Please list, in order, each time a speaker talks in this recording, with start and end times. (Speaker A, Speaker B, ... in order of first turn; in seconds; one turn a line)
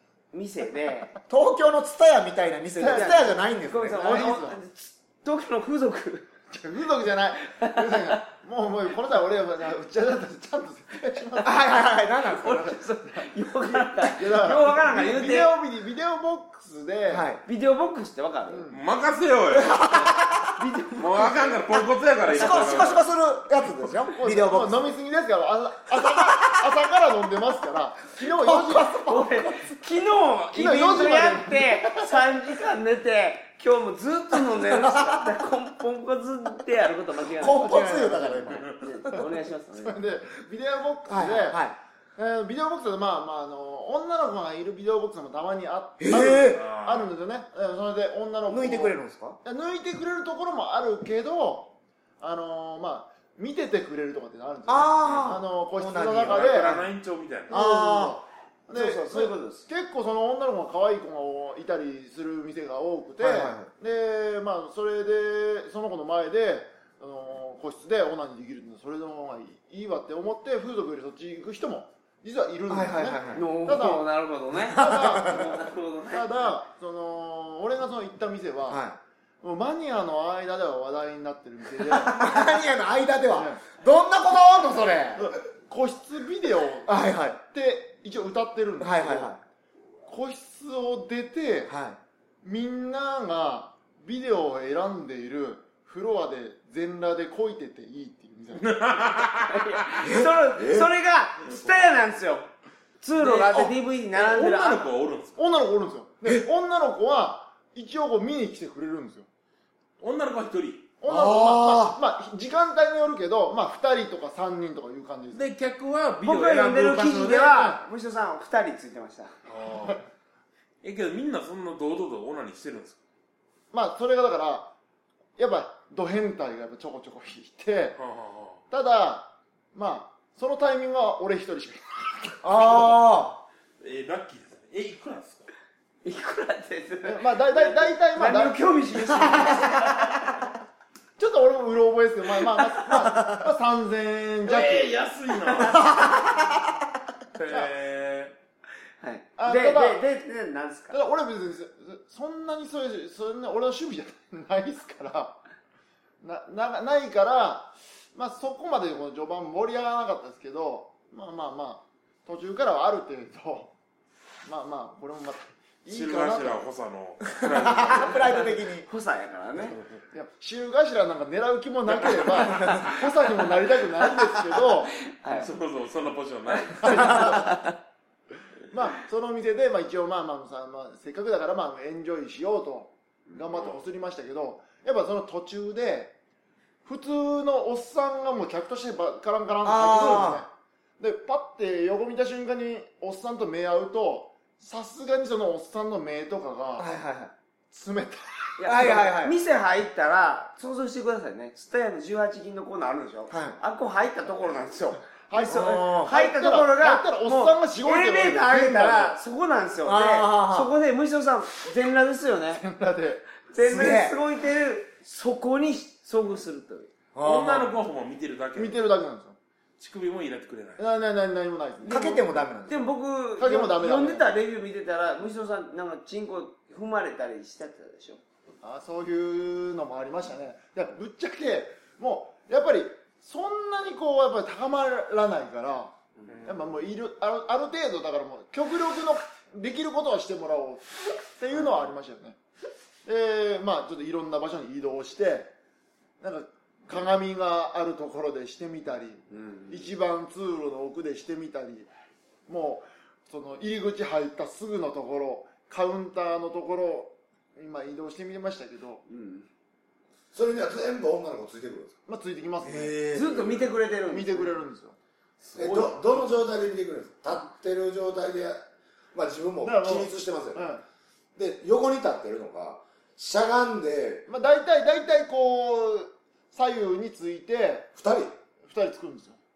Speaker A: 0.3-1.1
Speaker B: 1.3-4.3
Speaker C: 2.8-4.6
Speaker A: 2.8-6.3
Speaker C: 6.5-11.6
Speaker A: 7.5-8.2
Speaker B: 11.4-12.8
Speaker A: 12.2-15.5
Speaker C: 13.1-17.3
Speaker B: 17.1-17.4
Speaker A: 17.4-18.6
Speaker C: 18.5-18.8
Speaker D: 18.7-19.9
Speaker B: 19.6-20.5
Speaker A: 20.6-21.7
Speaker D: 21.0-23.1
Speaker B: 22.3-24.9
Speaker C: 24.2-29.0
Speaker B: 26.0-26.5
Speaker B: 28.2-29.7
Speaker A: 29.1-40.0
Speaker C: 30.5-32.2
Speaker B: 37.3-38.7
Speaker C: 39.9-41.6
Speaker B: 41.1-41.8
Speaker C: 42.2-56.8
Speaker B: 46.0-46.6
Speaker D: 46.5-47.1
Speaker B: 48.5-49.4
Speaker B: 54.7-56.9
Speaker D: 55.1-55.4
Speaker D: 56.3-57.6
Speaker B: 57.5-58.2
Speaker C: 57.5-74.0
Speaker A: 58.7-59.7
Speaker B: 63.2-63.7
Speaker B: 72.7-73.5
Speaker A: 73.3-76.5
Speaker C: 74.7-75.5
Speaker B: 74.8-75.4
Speaker C: 76.1-78.8
Speaker B: 78.7-79.0
Speaker C: 79.4-82.6
Speaker B: 81.9-85.3
Speaker C: 83.3-83.6
Speaker C: 85.2-89.4
Speaker B: 86.9-87.4
Speaker B: 88.8-89.4
Speaker C: 90.1-91.7
Speaker B: 91.7-92.0
Speaker C: 92.4-98.8
Speaker D: 98.5-99.7
Speaker A: 99.5-102.5
Speaker B: 100.0-100.3
Speaker E: 100.5-100.9
Speaker D: 101.5-101.8
Speaker A: 103.0-104.9
Speaker D: 103.2-105.4
Speaker C: 105.4-109.3
Speaker D: 110.0-110.9
Speaker C: 111.0-115.5
Speaker B: 111.1-112.0
Speaker D: 115.3-117.5
Speaker A: 116.2-119.3
Speaker C: 117.4-117.8
Speaker D: 119.5-120.0
Speaker D: 120.8-123.0
Speaker C: 123.7-124.7
Speaker C: 125.4-128.0
Speaker D: 128.0-128.6
Speaker C: 128.7-132.8
Speaker B: 132.4-133.4
Speaker D: 133.8-135.5
Speaker A: 136.0-140.1
Speaker C: 137.1-138.6
Speaker B: 139.2-139.5
Speaker C: 141.2-145.0
Speaker B: 142.9-143.5
Speaker D: 144.4-146.3
Speaker A: 145.5-145.8
Speaker B: 145.6-146.8
Speaker D: 147.4-148.3
Speaker A: 147.4-147.7
Speaker A: 149.0-151.0
Speaker C: 149.4-150.0
Speaker C: 150.9-155.4
Speaker C: 156.2-163.7
Speaker C: 164.4-166.6
Speaker D: 165.9-168.6
Speaker B: 167.3-168.9
Speaker A: 168.8-169.8
Speaker D: 169.6-170.0
Speaker C: 170.1-174.9
Speaker D: 171.9-173.0
Speaker A: 172.6-172.9
Speaker A: 174.0-175.5
Speaker D: 175.3-177.4
Speaker A: 176.8-177.8
Speaker C: 176.8-177.6
Speaker C: 178.7-186.2
Speaker D: 183.3-183.8
Speaker C: 186.8-196.9
Speaker B: 189.6-190.4
Speaker B: 196.8-197.3
Speaker C: 197.7-198.6
Speaker A: 198.6-212.7
Speaker B: 198.7-199.4
Speaker B: 203.3-203.6
Speaker C: 205.3-209.2
Speaker B: 205.5-206.1
Speaker B: 209.8-210.7
Speaker C: 212.6-213.3
Speaker A: 213.5-216.9
Speaker B: 213.6-214.2
Speaker B: 217.2-217.8
Speaker D: 217.2-218.8
Speaker C: 218.6-219.4
Speaker D: 219.8-220.8
Speaker C: 220.8-222.4
Speaker B: 221.8-222.9
Speaker A: 222.7-228.2
Speaker C: 223.4-224.3
Speaker C: 228.6-242.4
Speaker D: 236.3-236.8
Speaker C: 243.1-245.5
Speaker C: 246.2-251.9
Speaker A: 249.3-249.9
Speaker C: 252.5-259.0
Speaker A: 259.1-259.5
Speaker E: 260.3-262.0
Speaker C: 262.1-263.0
Speaker B: 262.6-263.6
Speaker A: 263.1-264.6
Speaker C: 264.1-265.0
Speaker D: 265.4-266.3
Speaker E: 265.6-268.6
Speaker E: 269.1-270.7
Speaker C: 269.6-270.8
Speaker E: 271.4-274.3
Speaker C: 274.3-277.9
Speaker E: 277.9-278.3
Speaker C: 278.7-279.4